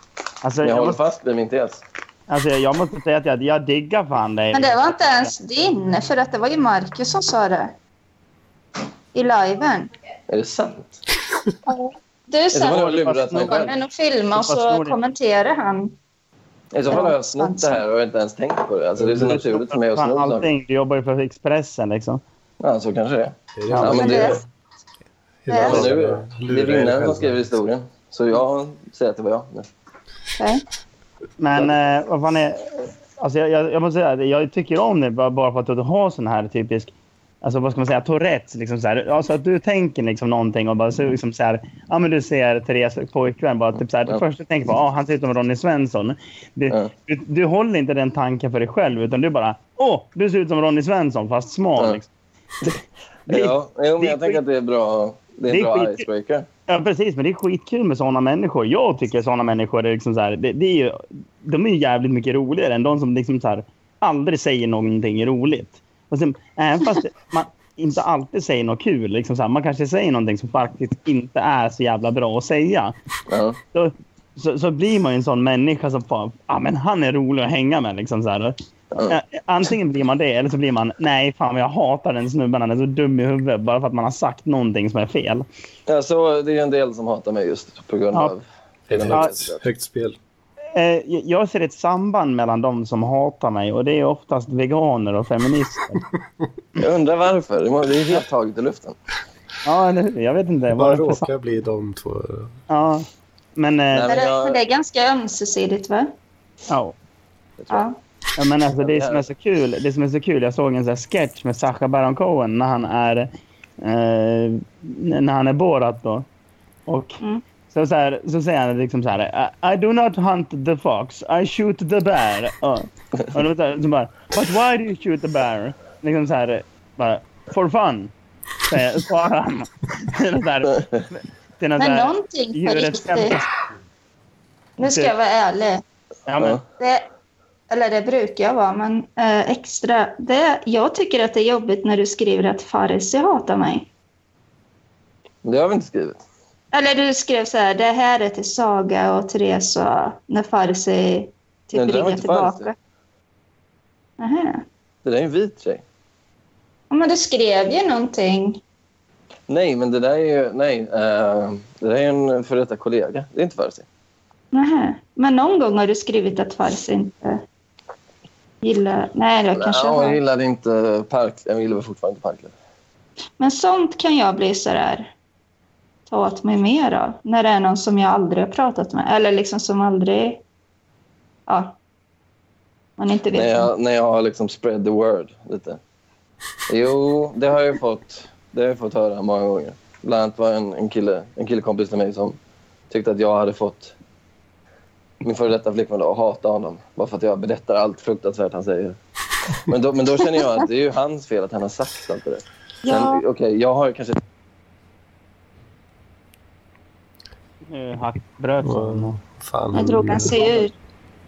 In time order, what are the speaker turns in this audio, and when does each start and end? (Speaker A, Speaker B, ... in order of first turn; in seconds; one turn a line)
Speaker A: 0.4-1.0
Speaker B: 0.6-1.8
Speaker A: 2.3-5.3
Speaker C: 4.5-7.7
Speaker C: 9.1-9.9
Speaker B: 10.3-11.0
Speaker C: 11.7-15.9
Speaker B: 12.5-13.7
Speaker A: 12.9-13.7
Speaker A: 14.3-15.0
Speaker B: 16.7-20.5
Speaker C: 16.9-17.8
Speaker D: 19.0-19.4
Speaker A: 19.2-22.2
Speaker B: 22.6-24.4
Speaker D: 23.6-24.4
Speaker A: 23.7-24.0
Speaker C: 23.9-24.4
Speaker D: 25.4-27.5
Speaker C: 25.5-25.9
Speaker B: 25.6-29.7
Speaker C: 30.4-30.6
Speaker A: 31.4-36.9
Speaker A: 37.4-52.1
Speaker A: 53.3-54.4
Speaker B: 53.3-56.5
Speaker A: 55.5-56.0
Speaker A: 56.7-72.9
Speaker B: 73.3-73.6
Speaker A: 73.7-78.5
Speaker B: 78.9-79.2
Speaker A: 79.1-85.5
Speaker B: 85.9-89.6
Speaker D: 88.9-90.2
Speaker A: 90.7-96.0
Speaker B: 96.8-99.0
Speaker A: 99.6-101.3
Speaker D: 100.7-102.5
Speaker A: 102.7-103.0
Speaker A: 103.5-104.1
Speaker B: 103.9-104.6
Speaker C: 104.1-106.1
Speaker A: 106.7-106.9
Speaker B: 107.6-107.8
Speaker C: 107.7-108.0
Speaker A: 108.4-113.3
Speaker B: 108.8-109.2
Speaker A: 113.8-116.2
Speaker A: 116.9-117.2
Speaker A: 117.7-128.1
Speaker A: 128.7-133.5
Speaker C: 131.8-133.3
Speaker C: 134.8-135.8
Speaker A: 134.8-135.1
Speaker A: 136.3-136.6
Speaker C: 136.8-137.0
Speaker C: 137.7-143.9
Speaker B: 145.4-146.2
Speaker C: 146.7-152.7
Speaker B: 151.7-152.7
Speaker C: 154.2-154.6
Speaker B: 155.0-155.8
Speaker C: 156.9-158.6
Speaker B: 159.5-163.8
Speaker C: 164.5-167.4
Speaker C: 168.6-170.2
Speaker B: 169.5-172.5
Speaker C: 173.4-175.1
Speaker C: 176.1-180.4
Speaker C: 181.5-181.8
Speaker C: 183.0-183.7
Speaker B: 183.3-185.8
Speaker B: 186.7-192.4
Speaker B: 192.9-193.9
Speaker B: 195.2-199.0
Speaker B: 199.6-204.2
Speaker C: 202.8-203.2
Speaker A: 207.7-209.2
Speaker D: 208.6-210.5
Speaker C: 209.7-210.7